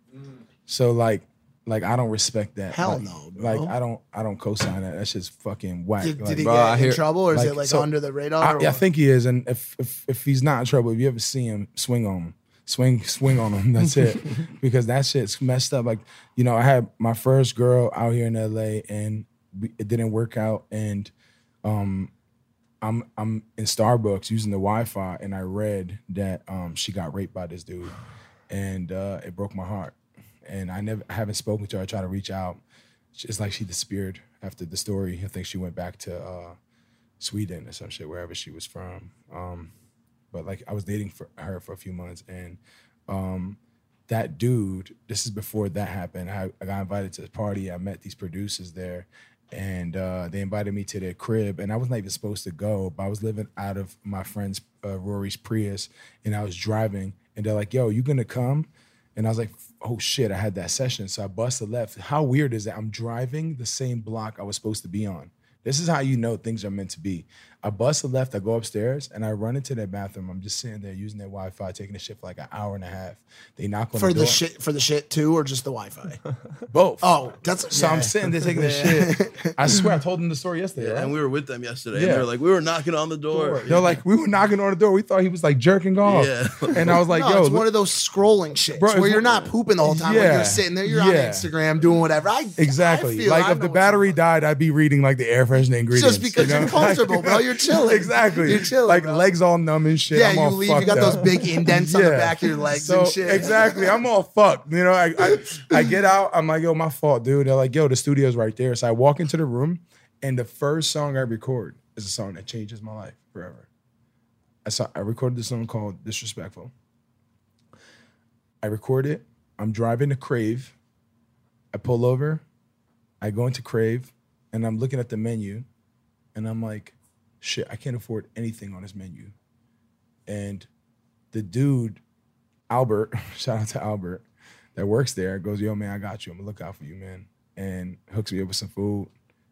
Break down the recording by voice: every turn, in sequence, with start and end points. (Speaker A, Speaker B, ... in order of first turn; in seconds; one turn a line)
Speaker A: 0.7-6.8
Speaker B: 2.7-3.8
Speaker B: 6.0-8.8
Speaker C: 6.4-7.0
Speaker A: 7.3-7.9
Speaker A: 8.4-21.1
Speaker A: 21.6-22.1
Speaker A: 22.8-27.9
Speaker A: 28.5-32.6
Speaker A: 33.1-36.6
Speaker A: 37.2-39.7
Speaker A: 40.3-74.4
Speaker B: 74.0-76.2
Speaker A: 76.7-77.1
Speaker B: 77.0-79.9
Speaker A: 77.7-81.1
Speaker C: 80.8-84.0
Speaker A: 81.9-82.3
Speaker A: 83.3-87.7
Speaker C: 86.0-87.0
Speaker B: 87.1-94.2
Speaker A: 88.8-91.5
Speaker A: 92.6-113.7
Speaker B: 95.9-99.3
Speaker B: 100.1-103.9
Speaker B: 105.2-105.9
Speaker A: 114.7-116.7
Speaker A: 118.6-120.8
Speaker A: 121.7-122.4
Speaker A: 123.2-125.7
Speaker A: 126.3-129.3
Speaker A: 130.3-130.7
Speaker A: 131.3-132.0
Speaker A: 132.7-134.2
Speaker A: 134.8-139.1